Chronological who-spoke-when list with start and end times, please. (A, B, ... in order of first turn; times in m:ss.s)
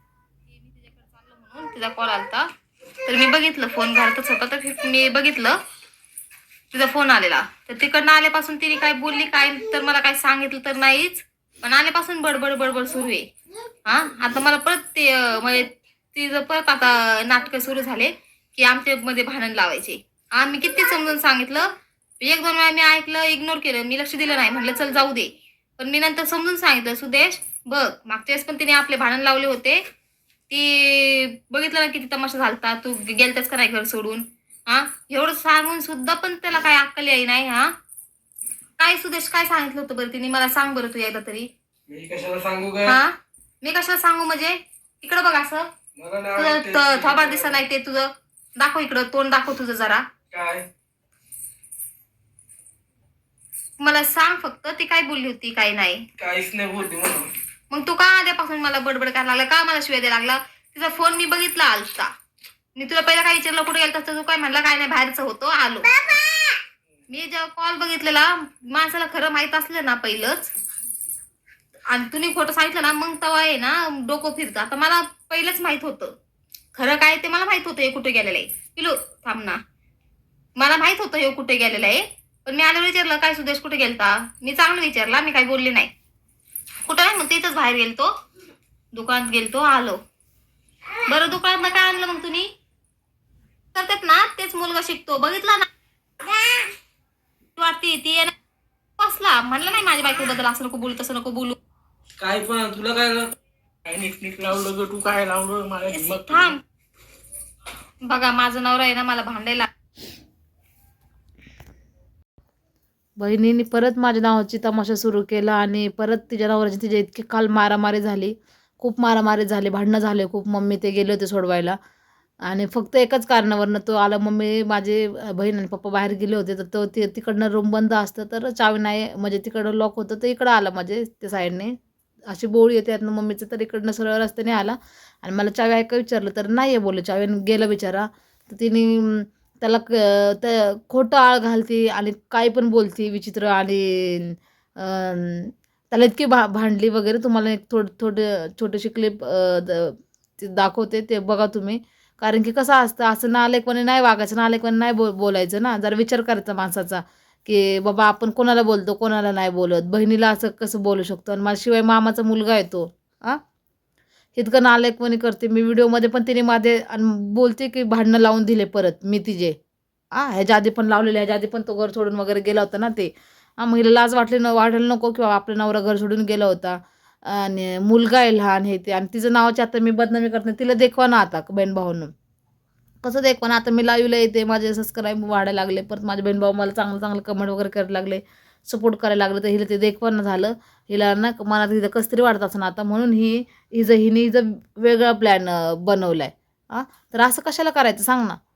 0:00.4-0:02.5 A
0:03.0-0:05.6 A
0:06.7-0:13.3 A
0:13.8-0:21.7 A
0:22.2-0:29.8 A
0:30.5-0:37.7 A
0:38.8-0:41.5 A
0:41.9-0:43.0 B
0:42.8-0:45.7 A
0:45.9-0:47.6 B
0:46.4-0:50.0 A
0:50.3-0:50.7 B
0:53.8-0:56.0 A
0:56.2-0:57.3 B
0:57.7-1:02.1 A
1:02.8-1:06.3 A
1:07.1-1:10.5 A
1:11.9-1:16.1 A
1:16.7-1:19.6 A
1:20.6-1:25.9 A
1:26.9-1:28.1 A
1:28.9-1:30.0 A
1:31.0-1:32.5 A
1:33.7-1:35.7 A
1:36.3-1:36.6 A
1:37.6-1:38.3 A
1:39.0-1:41.6 A
1:42.2-1:43.3 B
1:43.9-1:46.5 B
1:45.9-1:46.6 A
1:48.0-1:49.7 A
1:53.2-2:01.8 C
2:02.4-2:11.7 C
2:12.3-2:43.4 C
2:44.3-2:49.6 C
2:50.1-3:02.1 C
3:03.0-3:18.4 C